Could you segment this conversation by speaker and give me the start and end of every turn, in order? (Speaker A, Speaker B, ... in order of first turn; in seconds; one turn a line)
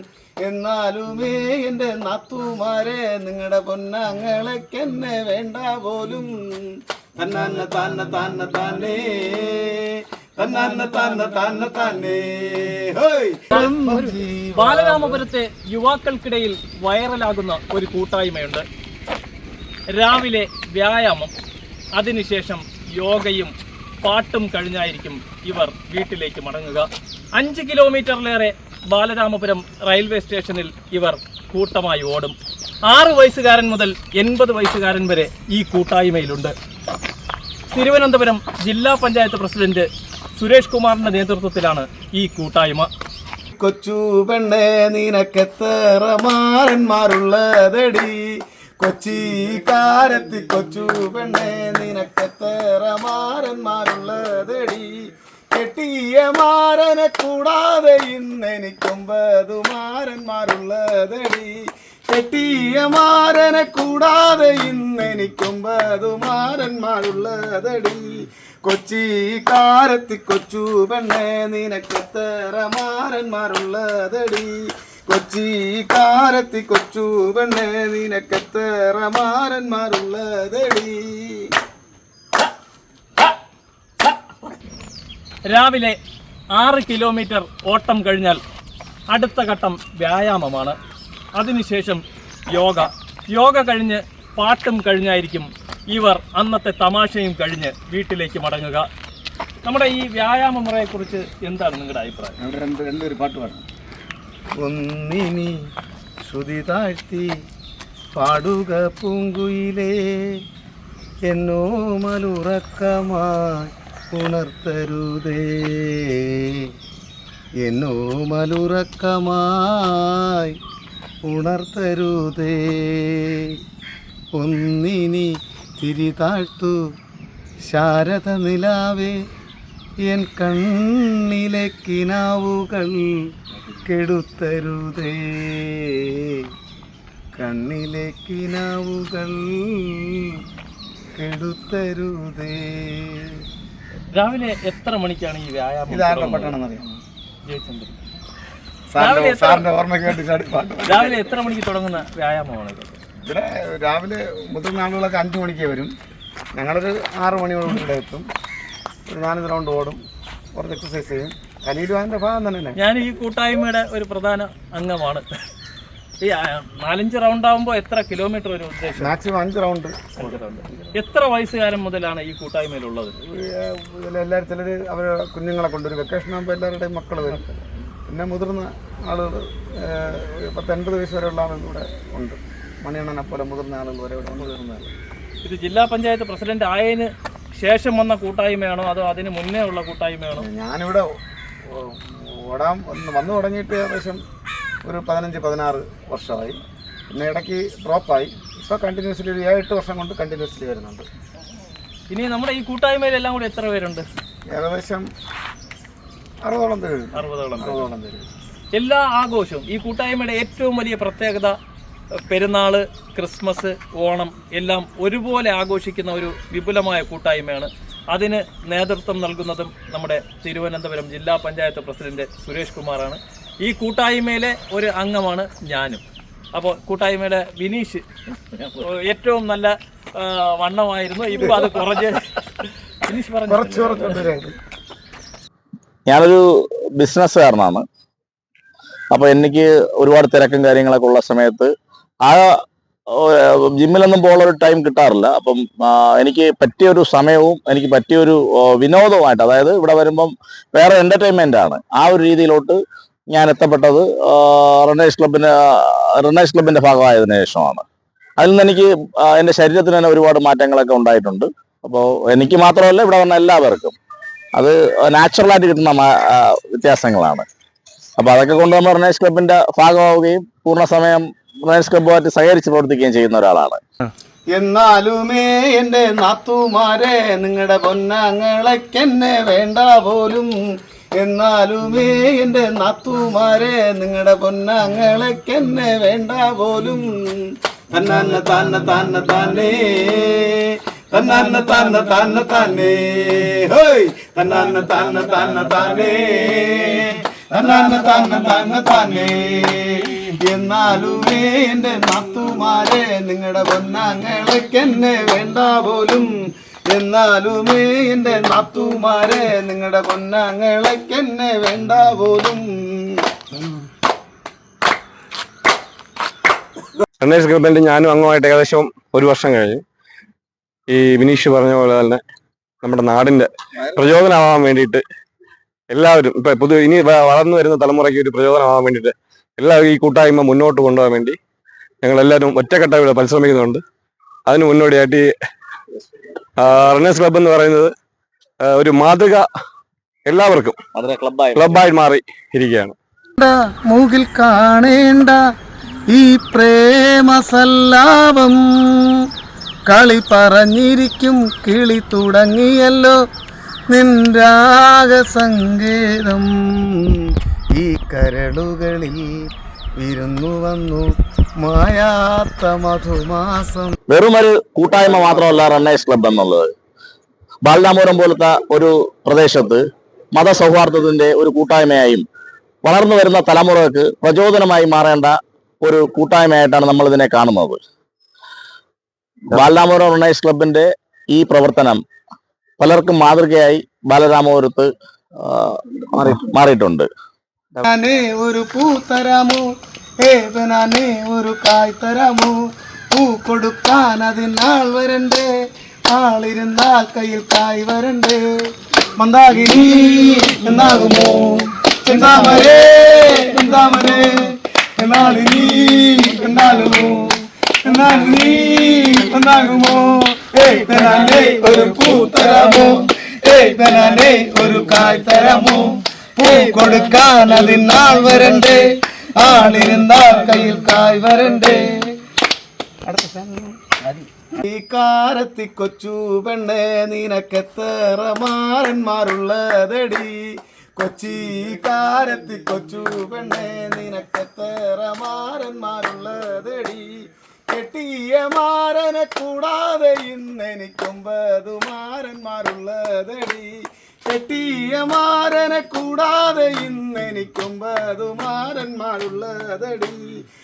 Speaker A: 0.4-6.4
Speaker A: 7.2-15.2
Speaker B: 13.5-18.6
Speaker B: 19.9-21.3
Speaker B: 21.9-32.4
Speaker B: 32.9-36.5
Speaker B: 37.7-42.9
Speaker A: 43.6-48.2
Speaker A: 48.8-54.9
Speaker A: 55.5-61.5
Speaker A: 62.1-68.1
Speaker A: 68.7-74.5
Speaker A: 75.1-81.5
Speaker B: 85.5-86.0
Speaker B: 86.5-88.4
Speaker B: 89.1-90.8
Speaker B: 91.4-92.0
Speaker B: 92.5-98.9
Speaker B: 99.6-102.3
Speaker A: 102.4-103.6
Speaker A: 104.6-105.5
Speaker A: 106.3-107.3
Speaker A: 108.2-110.0
Speaker A: 111.3-116.7
Speaker A: 117.6-120.6
Speaker A: 121.3-123.5
Speaker A: 124.4-125.3
Speaker A: 125.8-126.8
Speaker A: 127.7-129.2
Speaker A: 130.1-133.2
Speaker A: 133.9-136.2
Speaker A: 137.4-140.3
Speaker A: 141.2-143.3
Speaker B: 144.2-147.0
Speaker A: 145.9-146.8
Speaker B: 147.5-148.0
Speaker A: 148.9-151.4
Speaker B: 149.0-149.7
Speaker B: 150.8-153.0
Speaker A: 153.2-155.9
Speaker A: 156.6-158.3
Speaker A: 159.1-160.0
Speaker A: 160.6-162.8
Speaker B: 162.8-165.2
Speaker B: 166.2-169.2
Speaker A: 169.0-170.9
Speaker B: 170.2-173.2
Speaker A: 173.2-177.6
Speaker A: 178.1-184.9
Speaker B: 185.4-190.5
Speaker A: 190.4-191.1
Speaker A: 191.7-194.2
Speaker A: 194.9-196.6
Speaker A: 197.1-201.1
Speaker B: 202.1-204.1
Speaker A: 204.5-205.1
Speaker A: 206.4-208.3
Speaker B: 207.2-207.9
Speaker B: 208.8-211.6
Speaker B: 212.3-226.0
Speaker B: 226.6-234.2
Speaker A: 231.4-231.7
Speaker A: 233.5-234.6
Speaker C: 236.1-236.4
Speaker C: 237.0-237.8
Speaker C: 239.1-241.7
Speaker C: 242.2-242.5
Speaker C: 243.1-257.8
Speaker C: 258.4-264.0
Speaker C: 264.6-267.5
Speaker C: 268.2-273.8
Speaker A: 274.6-280.5
Speaker A: 281.2-287.2
Speaker A: 287.9-306.3
Speaker A: 306.9-313.0
Speaker D: 317.2-319.8
Speaker D: 320.9-322.2
Speaker D: 322.8-325.0
Speaker D: 325.9-331.4
Speaker D: 332.0-333.8
Speaker D: 334.5-335.3
Speaker D: 336.6-337.9
Speaker D: 338.6-339.4
Speaker D: 340.3-340.8
Speaker C: 340.9-341.8
Speaker D: 341.6-342.9
Speaker A: 343.4-345.4
Speaker A: 346.1-349.1
Speaker A: 349.9-353.2
Speaker A: 353.9-357.0
Speaker A: 357.8-359.3
Speaker A: 360.0-363.9
Speaker C: 364.1-366.7
Speaker C: 367.6-369.8
Speaker C: 370.3-372.3
Speaker C: 372.8-377.8
Speaker C: 379.5-382.0
Speaker C: 382.8-384.9
Speaker C: 385.4-387.1
Speaker A: 387.9-389.7
Speaker A: 390.2-392.6
Speaker A: 393.1-395.5
Speaker A: 396.1-398.4
Speaker A: 399.2-404.4
Speaker A: 405.0-418.9
Speaker A: 419.4-422.1
Speaker A: 423.1-423.9
Speaker A: 424.5-430.4
Speaker A: 431.0-437.1
Speaker A: 437.7-443.7
Speaker A: 444.3-450.3